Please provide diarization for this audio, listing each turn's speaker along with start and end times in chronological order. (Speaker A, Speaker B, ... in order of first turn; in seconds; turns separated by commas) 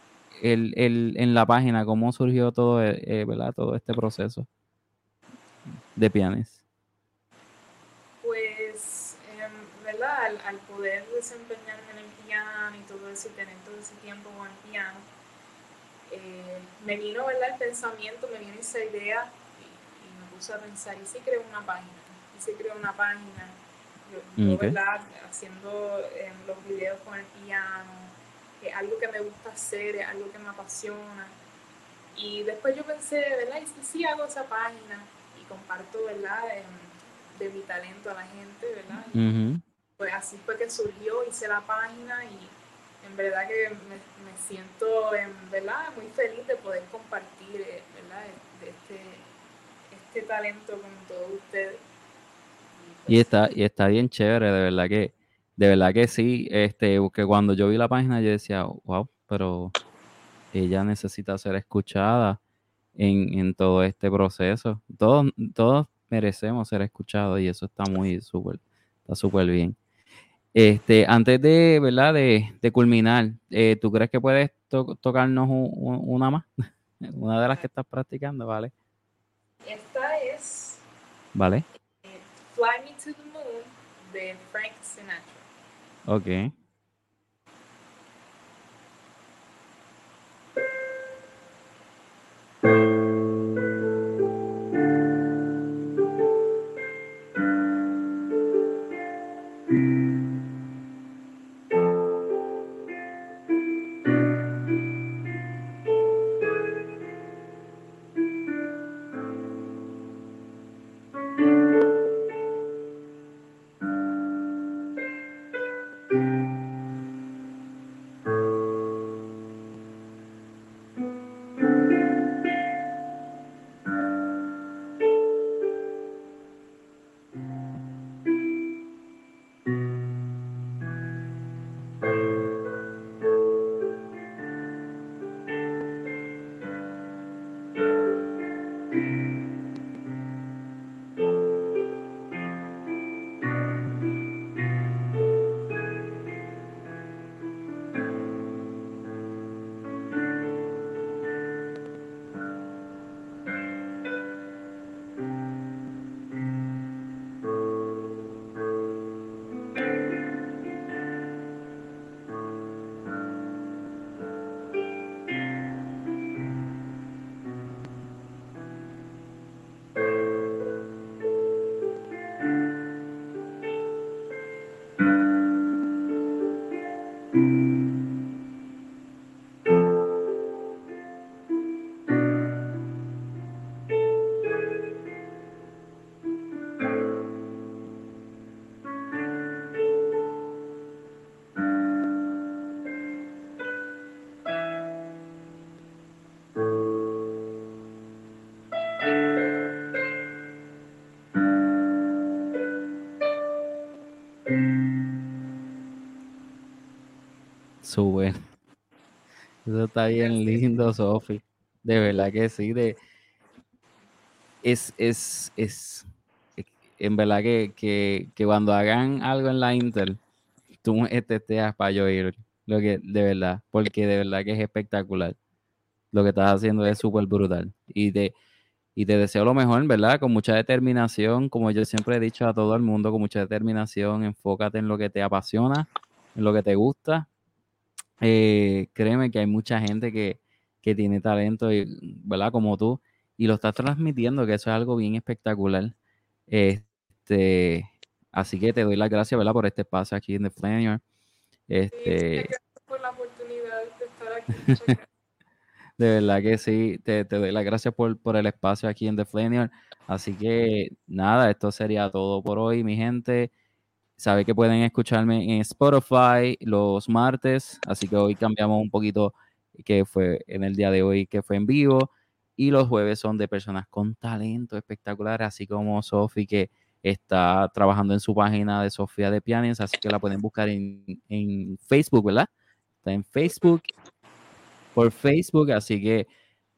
Speaker A: 0.4-4.5, Speaker A: 6.0-6.6, Speaker B: 8.2-15.1, Speaker B: 16.1-31.4, Speaker A: 24.4-24.8, Speaker B: 32.1-39.3, Speaker A: 39.1-39.6, Speaker B: 40.0-49.3, Speaker B: 49.9-51.8, Speaker B: 52.7-53.3, Speaker A: 53.1-59.8, Speaker A: 60.5-62.4, Speaker A: 63.0-69.8, Speaker A: 70.5-76.5, Speaker A: 77.0-78.7, Speaker B: 79.7-80.8, Speaker A: 81.3-81.7, Speaker B: 82.0-85.5, Speaker A: 86.1-86.5, Speaker A: 207.8-208.4, Speaker A: 209.7-213.0, Speaker B: 210.2-210.7, Speaker A: 214.6-216.1, Speaker A: 216.6-220.2, Speaker A: 220.8-225.4, Speaker A: 226.1-228.3, Speaker A: 229.0-237.3, Speaker A: 238.2-245.9, Speaker A: 246.5-251.0, Speaker A: 251.7-252.5, Speaker B: 251.9-255.1, Speaker A: 256.0-263.5, Speaker A: 264.2-282.5, Speaker A: 283.0-283.9, Speaker A: 284.9-286.3